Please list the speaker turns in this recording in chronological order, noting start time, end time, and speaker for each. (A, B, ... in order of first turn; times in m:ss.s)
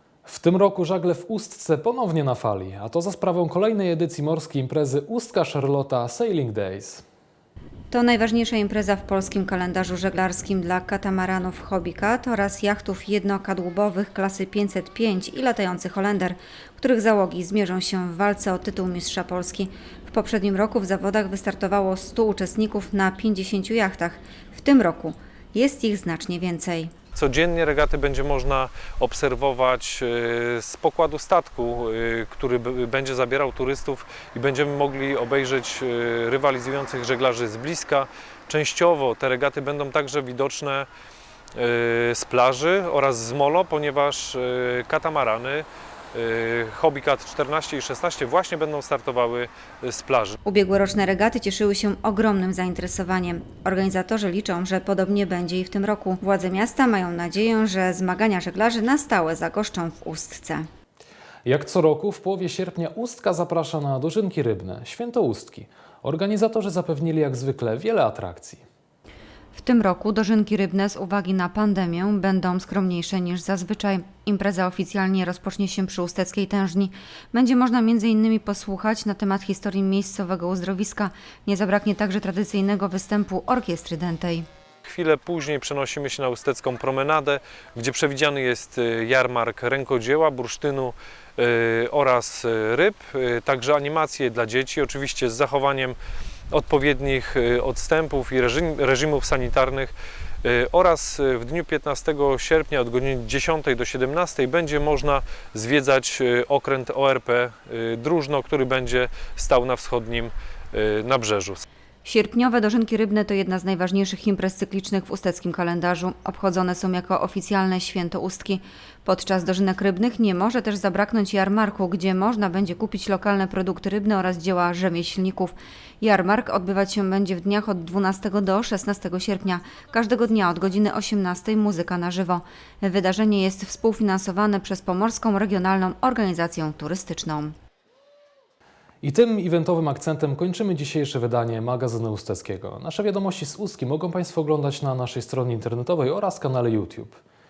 0:00.2-0:07.0 A
0:07.9-0:26.9 B
0:27.2-0:40.9 C
0:41.5-0:50.3 C
0:50.4-1:00.7 B
1:01.4-1:08.6 A
1:09.5-1:24.4 B
1:24.8-1:36.0 C
1:36.5-1:51.6 C
1:52.0-2:17.5 B
2:19.0-2:27.2 A